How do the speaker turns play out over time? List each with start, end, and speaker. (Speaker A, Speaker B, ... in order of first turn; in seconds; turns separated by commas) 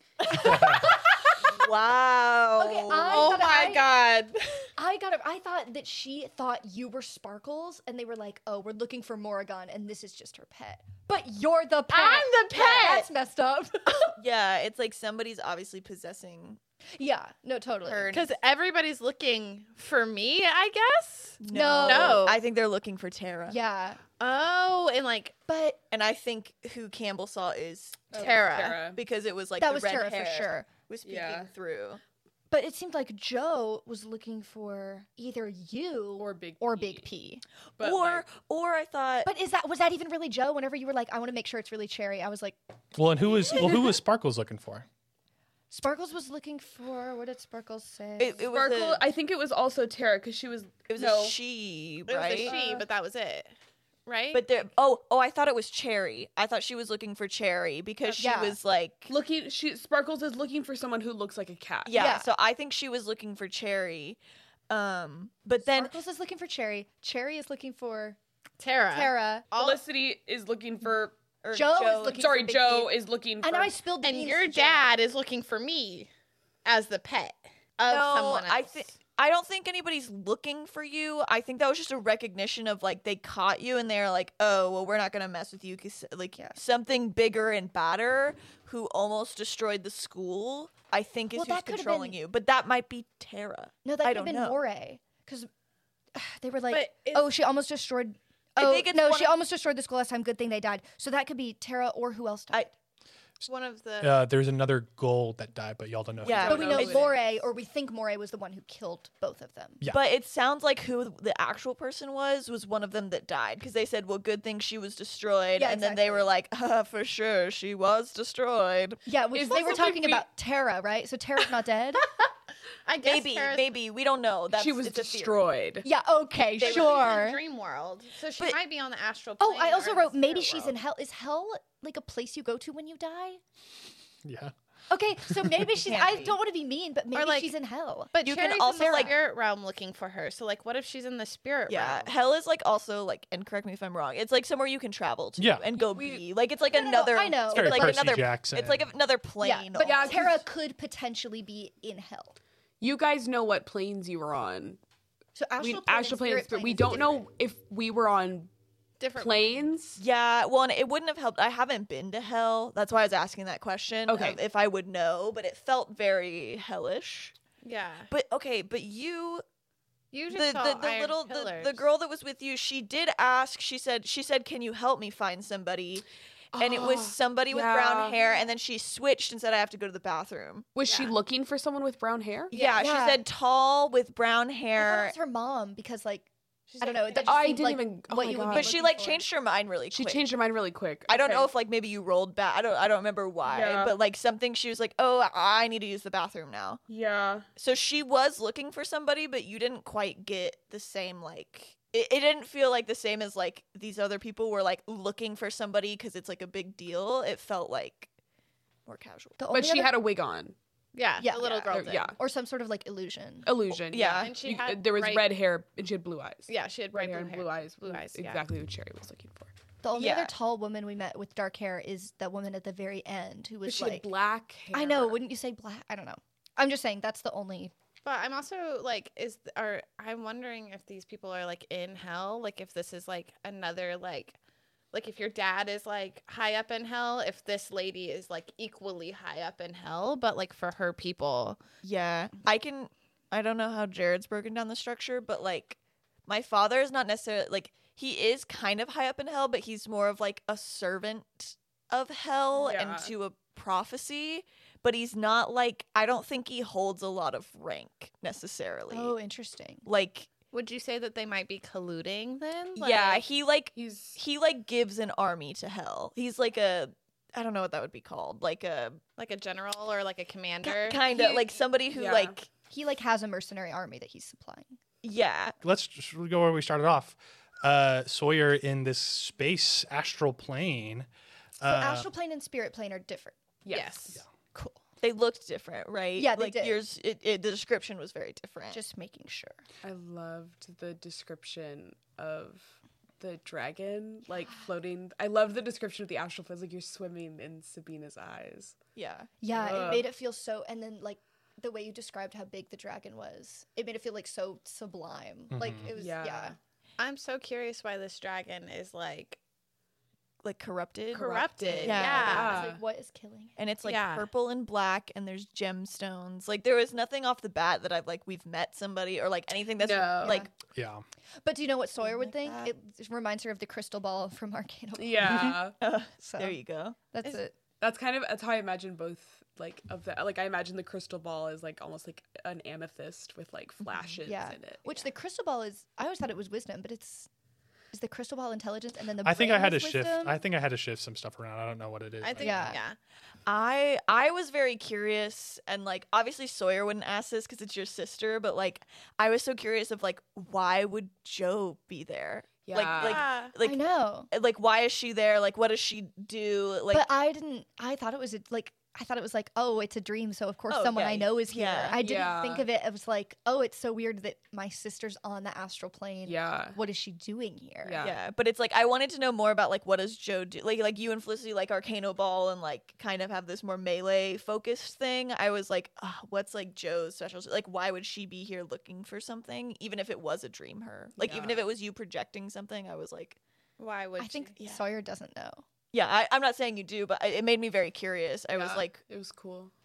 Speaker A: 0.2-3.4, Speaker B: 0.4-0.9, Speaker C: 2.6-3.9, Speaker D: 3.1-4.7, Speaker C: 4.8-14.2, Speaker D: 11.9-13.1, Speaker A: 12.5-13.0, Speaker A: 14.2-16.6, Speaker C: 16.9-18.2, Speaker A: 17.8-18.3, Speaker D: 18.1-22.4, Speaker A: 21.4-23.6, Speaker C: 21.5-22.2, Speaker C: 23.5-24.0, Speaker D: 24.2-25.4, Speaker C: 25.5-25.8, Speaker A: 25.9-28.4, Speaker E: 28.1-29.0, Speaker D: 28.1-28.8, Speaker A: 28.9-32.0, Speaker C: 29.6-30.7, Speaker E: 31.0-31.5, Speaker C: 32.5-37.4, Speaker E: 36.2-37.1, Speaker E: 37.8-38.2, Speaker A: 37.8-39.3, Speaker C: 39.2-42.6, Speaker B: 42.9-44.9, Speaker C: 43.4-43.9, Speaker C: 45.7-48.4, Speaker A: 48.2-49.0, Speaker E: 48.5-51.4, Speaker A: 50.9-52.6, Speaker D: 52.1-53.5, Speaker E: 52.4-52.8, Speaker D: 54.0-54.4, Speaker A: 54.3-59.1, Speaker C: 58.2-58.6, Speaker E: 59.1-62.1, Speaker A: 61.9-65.9, Speaker C: 61.9-62.3, Speaker C: 65.7-68.2, Speaker D: 68.6-69.8, Speaker C: 68.9-69.5, Speaker E: 69.5-71.2, Speaker A: 71.4-72.5, Speaker C: 71.5-72.9, Speaker E: 72.1-73.7, Speaker C: 73.4-74.9, Speaker D: 74.0-76.1, Speaker D: 76.6-78.9, Speaker A: 77.9-94.6, Speaker C: 91.3-92.2, Speaker C: 93.8-95.5, Speaker C: 96.1-102.7, Speaker D: 96.7-97.3, Speaker A: 98.6-99.4, Speaker D: 103.5-104.2, Speaker B: 104.0-106.9, Speaker A: 106.2-107.1, Speaker E: 106.3-107.2, Speaker C: 106.5-109.8, Speaker A: 109.9-119.0, Speaker C: 115.5-116.3, Speaker C: 119.0-122.1, Speaker E: 119.3-120.2, Speaker D: 122.8-123.7, Speaker A: 123.0-125.5, Speaker E: 124.5-125.8, Speaker C: 125.8-127.4, Speaker A: 126.6-127.2, Speaker D: 126.6-130.7, Speaker C: 129.4-133.4, Speaker B: 134.2-134.5, Speaker C: 134.9-138.1, Speaker A: 135.8-136.4, Speaker D: 137.1-137.5, Speaker D: 138.1-142.1, Speaker A: 138.2-139.1, Speaker C: 138.8-139.1, Speaker A: 141.7-150.4, Speaker B: 145.4-145.6, Speaker E: 145.8-146.2, Speaker C: 146.7-148.0, Speaker B: 147.5-148.9, Speaker C: 149.4-152.3, Speaker E: 149.8-150.4, Speaker E: 152.8-154.8, Speaker C: 155.3-157.2, Speaker E: 155.6-158.5, Speaker D: 159.0-159.5, Speaker E: 159.2-160.0, Speaker A: 160.0-167.3, Speaker E: 164.1-164.4, Speaker D: 167.6-168.1, Speaker A: 168.1-169.4, Speaker D: 170.1-171.9, Speaker A: 170.3-176.0, Speaker E: 176.5-178.2, Speaker A: 176.6-180.7, Speaker E: 180.7-182.5, Speaker A: 182.5-185.1, Speaker C: 182.5-183.2, Speaker C: 184.7-186.3, Speaker D: 186.7-187.6, Speaker C: 186.8-189.2, Speaker E: 187.2-188.8, Speaker A: 188.5-190.2, Speaker E: 189.9-191.5, Speaker A: 191.1-196.8, Speaker E: 193.4-193.9, Speaker E: 196.9-197.4, Speaker A: 197.6-208.1, Speaker A: 208.8-209.4, Speaker C: 209.4-210.0, Speaker E: 209.5-210.5, Speaker D: 210.9-212.1, Speaker C: 211.2-213.5, Speaker E: 211.7-212.2, Speaker E: 213.4-219.5, Speaker A: 213.9-214.3, Speaker D: 214.2-215.3, Speaker D: 216.5-218.4, Speaker C: 219.8-224.1, Speaker A: 219.9-220.3, Speaker E: 223.7-225.2, Speaker C: 224.7-227.7, Speaker D: 228.0-234.4, Speaker D: 234.9-241.6, Speaker A: 241.8-259.1, Speaker E: 252.5-253.1, Speaker C: 258.9-259.9, Speaker A: 259.9-260.3, Speaker D: 260.5-263.2, Speaker A: 262.8-269.0, Speaker E: 263.7-264.2, Speaker D: 269.2-271.0, Speaker A: 270.6-272.4, Speaker E: 271.1-272.4, Speaker C: 272.7-274.8, Speaker A: 275.0-275.6, Speaker B: 275.6-281.1, Speaker B: 281.6-282.1, Speaker C: 281.6-283.4, Speaker E: 283.6-284.2, Speaker D: 283.7-284.2, Speaker A: 285.0-288.8, Speaker C: 286.2-286.8, Speaker C: 288.7-289.6, Speaker E: 289.8-298.8, Speaker A: 298.9-299.9, Speaker C: 299.4-306.6, Speaker E: 299.5-300.1, Speaker B: 305.5-305.9, Speaker E: 305.9-306.6, Speaker D: 307.0-309.4, Speaker A: 310.4-312.6, Speaker D: 311.1-312.6, Speaker C: 311.8-313.6, Speaker E: 311.8-312.8, Speaker A: 313.6-320.5, Speaker D: 313.8-314.3, Speaker E: 319.8-320.4, Speaker C: 320.2-320.5, Speaker B: 320.7-321.0, Speaker C: 321.4-327.5, Speaker A: 322.0-322.7, Speaker E: 325.0-325.8, Speaker A: 325.8-327.4, Speaker E: 327.8-335.1, Speaker A: 333.8-334.2, Speaker C: 334.2-337.3, Speaker C: 337.9-340.4, Speaker B: 339.2-342.8, Speaker D: 342.2-343.0, Speaker C: 342.4-342.8, Speaker A: 343.4-357.1, Speaker E: 352.6-353.2, Speaker D: 353.0-353.5, Speaker C: 353.6-354.3, Speaker C: 356.9-368.1, Speaker A: 360.7-362.0, Speaker E: 362.0-362.7, Speaker E: 366.2-366.8, Speaker E: 367.8-368.2, Speaker A: 368.0-383.4, Speaker E: 381.2-381.6, Speaker D: 383.8-384.6, Speaker C: 384.2-385.6, Speaker A: 384.6-384.8, Speaker A: 385.9-389.0, Speaker E: 388.5-389.7